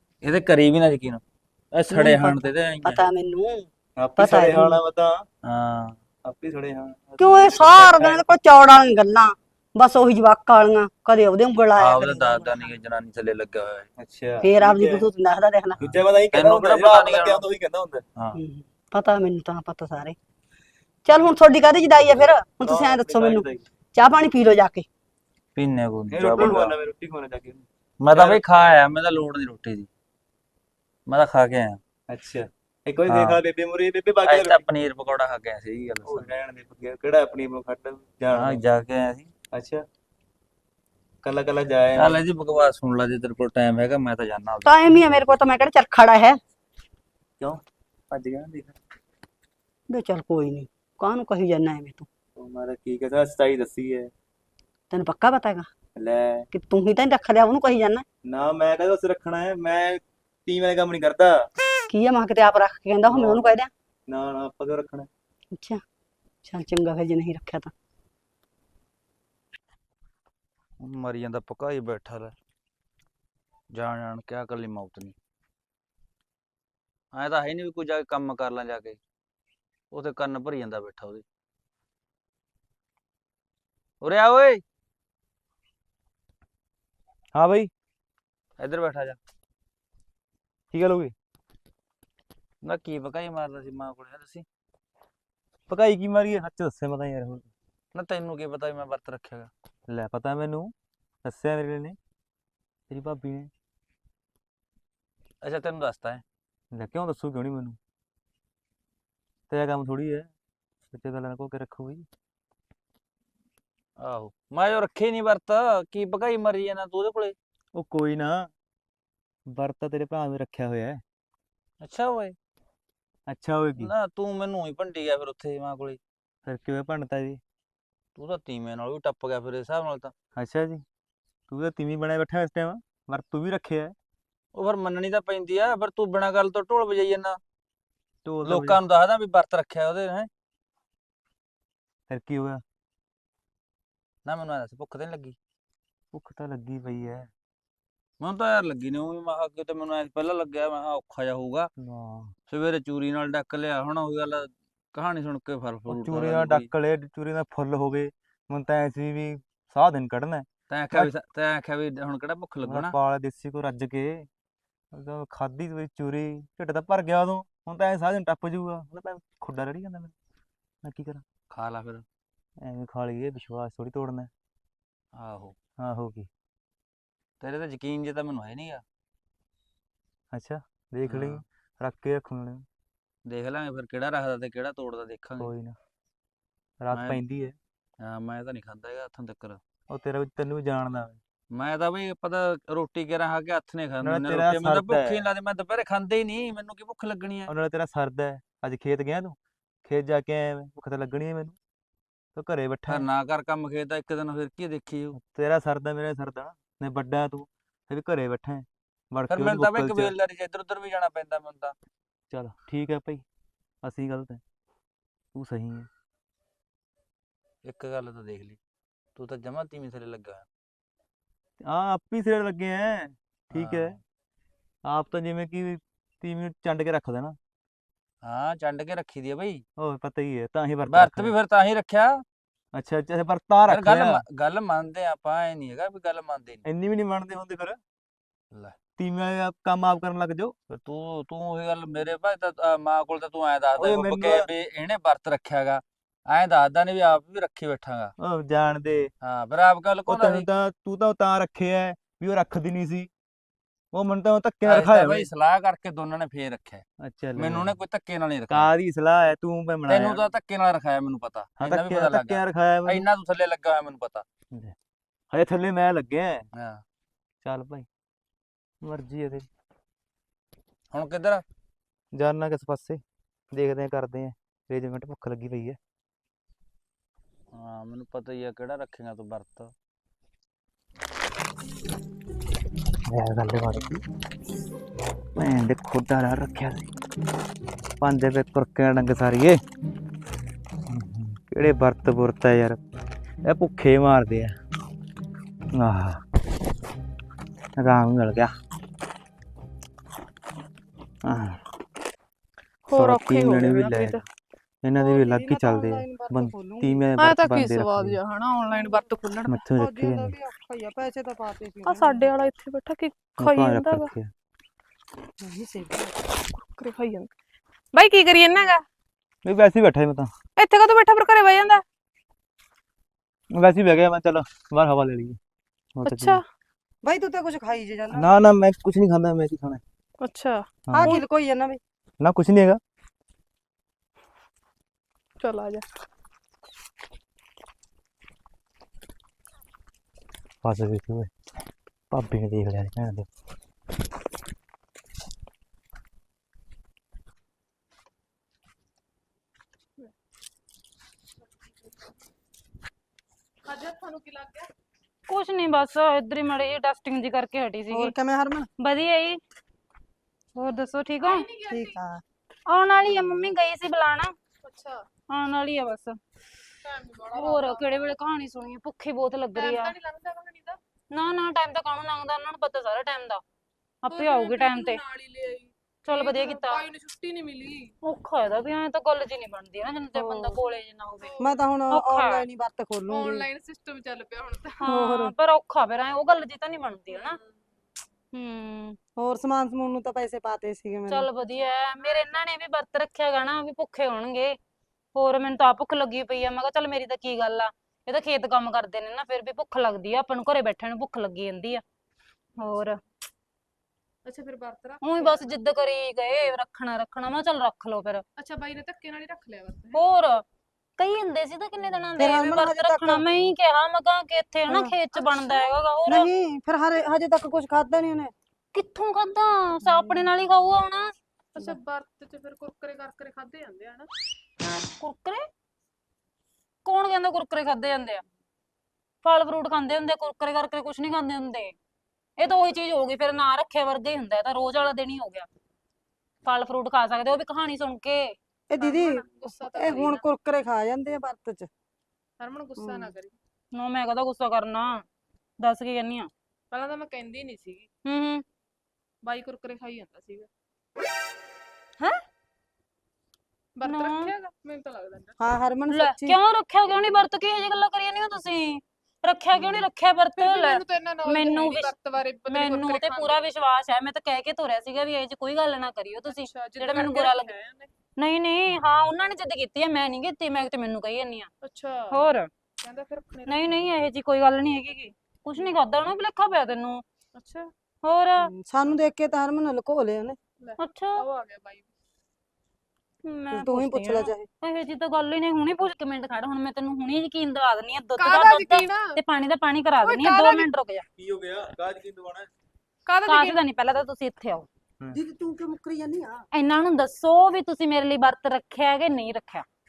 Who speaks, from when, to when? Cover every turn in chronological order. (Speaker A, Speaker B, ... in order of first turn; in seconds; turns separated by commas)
Speaker A: 0.2-3.1, Speaker B: 1.9-4.8, Speaker C: 4.0-5.2, Speaker A: 5.4-6.0, Speaker C: 6.2-8.2, Speaker B: 7.2-12.7, Speaker A: 11.8-13.9, Speaker C: 14.0-15.1, Speaker B: 14.4-15.8, Speaker C: 15.8-18.0, Speaker A: 15.8-17.4, Speaker B: 18.4-20.2, Speaker B: 21.1-24.9, Speaker C: 22.1-23.7, Speaker A: 25.6-26.8, Speaker C: 26.1-28.4, Speaker A: 28.0-29.9, Speaker A: 31.1-31.8, Speaker C: 32.1-34.6, Speaker A: 33.1-33.4, Speaker A: 34.2-36.3, Speaker C: 36.0-38.6, Speaker A: 38.3-39.3, Speaker C: 39.5-39.8, Speaker C: 41.2-42.2, Speaker A: 42.0-44.8, Speaker B: 44.6-46.4, Speaker C: 47.4-48.8, Speaker B: 49.9-52.1, Speaker C: 52.4-54.1, Speaker B: 54.9-55.7, Speaker C: 56.0-56.5, Speaker B: 56.5-58.0, Speaker C: 58.2-61.5, Speaker B: 61.9-63.7, Speaker C: 63.1-63.5, Speaker C: 64.1-65.1, Speaker B: 65.5-65.8, Speaker B: 66.5-67.7, Speaker A: 70.8-72.3, Speaker A: 73.7-75.2, Speaker A: 77.1-79.0, Speaker A: 79.9-81.2, Speaker A: 84.0-84.6, Speaker C: 87.3-87.7, Speaker A: 88.6-89.2, Speaker C: 90.7-91.1, Speaker A: 92.6-94.5, Speaker C: 95.7-97.5, Speaker A: 97.9-99.5, Speaker C: 99.9-102.0, Speaker C: 102.9-103.5, Speaker A: 105.4-106.2, Speaker C: 106.7-107.8, Speaker C: 109.5-110.3, Speaker C: 110.9-112.1, Speaker A: 114.0-117.3, Speaker C: 117.8-118.5, Speaker C: 119.5-121.0, Speaker A: 121.8-122.4, Speaker C: 123.3-123.9, Speaker A: 123.8-126.0, Speaker C: 126.5-127.4, Speaker A: 128.2-130.1, Speaker C: 130.3-130.8, Speaker C: 131.5-133.9, Speaker A: 134.6-137.4, Speaker C: 138.2-138.8, Speaker A: 138.4-140.3, Speaker C: 142.1-142.6, Speaker A: 144.3-145.4, Speaker C: 146.1-147.3, Speaker A: 148.2-151.7, Speaker C: 151.8-152.3, Speaker A: 152.5-156.7, Speaker C: 155.9-161.1, Speaker A: 160.7-163.0, Speaker C: 162.7-164.3, Speaker C: 164.9-170.1, Speaker C: 170.8-171.2, Speaker A: 171.5-172.1, Speaker C: 172.6-174.3, Speaker A: 175.2-175.6, Speaker C: 175.8-176.3, Speaker A: 177.4-178.8, Speaker C: 180.3-182.7, Speaker A: 181.1-181.4, Speaker A: 183.3-185.5, Speaker C: 185.4-185.8, Speaker C: 186.8-187.6, Speaker A: 186.9-187.2, Speaker A: 188.0-189.6, Speaker C: 189.9-191.2, Speaker A: 191.5-197.5, Speaker C: 194.0-195.2, Speaker C: 197.5-201.6, Speaker C: 202.3-203.1, Speaker A: 202.9-205.2, Speaker C: 205.1-210.1, Speaker A: 209.3-211.8, Speaker C: 212.3-213.2, Speaker C: 213.8-214.4, Speaker C: 215.3-215.9, Speaker A: 217.7-218.6, Speaker A: 219.2-220.5, Speaker C: 221.6-224.0, Speaker A: 223.5-224.0, Speaker C: 224.9-227.4, Speaker A: 228.2-229.6, Speaker C: 229.8-231.3, Speaker A: 230.9-232.2, Speaker C: 232.7-234.2, Speaker A: 233.7-236.6, Speaker C: 236.7-237.8, Speaker C: 239.0-240.6, Speaker A: 240.7-248.1, Speaker C: 243.8-244.5, Speaker C: 248.2-249.1, Speaker A: 249.2-250.5, Speaker C: 250.1-253.1, Speaker C: 253.9-255.3, Speaker A: 254.7-256.8, Speaker C: 257.0-257.7, Speaker A: 257.4-258.7, Speaker C: 258.5-260.2, Speaker A: 259.9-264.2, Speaker C: 261.6-263.1, Speaker C: 265.3-266.4, Speaker A: 266.5-266.8, Speaker C: 267.4-267.9, Speaker C: 268.8-269.5, Speaker A: 270.9-271.4, Speaker C: 272.1-273.0, Speaker C: 273.5-275.8, Speaker A: 277.5-279.7, Speaker C: 283.1-284.0, Speaker C: 285.4-286.9, Speaker C: 288.0-289.6, Speaker C: 290.9-292.8, Speaker C: 293.5-294.6, Speaker C: 295.7-296.2, Speaker C: 297.8-298.5, Speaker C: 301.2-301.6, Speaker D: 302.9-304.2, Speaker C: 302.9-304.2, Speaker C: 304.8-308.2, Speaker E: 305.0-307.1, Speaker D: 307.2-309.6, Speaker E: 308.7-309.1, Speaker C: 309.5-310.3, Speaker E: 309.7-312.5, Speaker D: 311.9-314.1, Speaker C: 313.4-314.3, Speaker E: 315.4-316.3, Speaker D: 316.6-317.3, Speaker D: 317.9-318.8, Speaker C: 319.4-320.3, Speaker D: 320.6-321.8, Speaker C: 323.5-325.4, Speaker C: 326.0-326.4, Speaker D: 326.1-326.4, Speaker E: 327.0-328.3, Speaker C: 328.1-329.8, Speaker D: 330.2-331.2, Speaker C: 330.9-331.1, Speaker E: 330.9-331.8, Speaker C: 332.2-332.8, Speaker D: 335.4-335.8, Speaker C: 340.6-341.3, Speaker C: 342.1-343.3, Speaker D: 353.7-354.7, Speaker F: 355.3-358.1, Speaker E: 357.9-358.7, Speaker F: 358.8-359.4, Speaker F: 360.6-361.5, Speaker D: 361.2-362.0, Speaker E: 361.7-362.2, Speaker F: 362.7-364.4, Speaker D: 364.6-365.1, Speaker F: 365.3-366.2, Speaker D: 366.8-368.1, Speaker F: 367.3-369.9, Speaker D: 369.6-370.8, Speaker F: 371.1-373.4, Speaker F: 374.0-375.0, Speaker D: 374.1-377.9, Speaker F: 376.1-376.9, Speaker F: 378.0-381.3, Speaker E: 380.2-380.6, Speaker D: 381.2-381.5, Speaker E: 381.4-383.5, Speaker F: 381.9-382.5, Speaker D: 383.1-384.8, Speaker F: 384.8-387.4, Speaker E: 384.9-385.3, Speaker D: 387.1-387.5, Speaker F: 388.3-389.0, Speaker E: 389.2-391.3, Speaker F: 391.1-394.6, Speaker F: 395.1-401.8, Speaker F: 402.6-403.0, Speaker D: 404.3-405.6, Speaker F: 405.0-408.2, Speaker D: 408.4-410.0, Speaker F: 409.9-410.4, Speaker F: 411.0-416.3, Speaker E: 412.2-413.2, Speaker E: 414.7-415.0, Speaker D: 415.1-415.7, Speaker E: 416.1-418.3, Speaker F: 418.7-421.1, Speaker E: 419.9-420.3, Speaker D: 421.6-424.1, Speaker F: 425.0-425.5, Speaker F: 426.9-428.2, Speaker F: 429.2-431.7, Speaker F: 432.4-435.5, Speaker F: 436.4-438.4, Speaker E: 438.7-441.7, Speaker D: 438.8-440.3, Speaker D: 442.4-443.4, Speaker E: 442.8-443.1, Speaker F: 443.7-445.1, Speaker F: 445.6-446.3, Speaker D: 446.7-447.9, Speaker F: 448.1-448.4, Speaker D: 449.2-450.5, Speaker D: 453.8-455.4, Speaker F: 453.8-454.3, Speaker E: 455.4-456.4, Speaker F: 455.9-461.9, Speaker D: 460.4-463.4, Speaker F: 462.5-467.5, Speaker D: 466.3-467.9, Speaker F: 468.2-471.5, Speaker D: 471.6-472.3, Speaker F: 472.1-472.5, Speaker D: 472.8-473.7, Speaker F: 473.5-477.0, Speaker D: 477.4-477.7, Speaker F: 478.0-478.5, Speaker E: 478.4-480.4, Speaker D: 480.6-481.9, Speaker F: 480.8-481.3, Speaker F: 483.2-491.1, Speaker E: 483.5-484.5, Speaker D: 488.2-489.2, Speaker D: 490.0-490.7, Speaker C: 491.2-492.5, Speaker D: 493.1-493.6, Speaker F: 493.3-494.7, Speaker E: 495.1-496.5, Speaker F: 496.5-499.7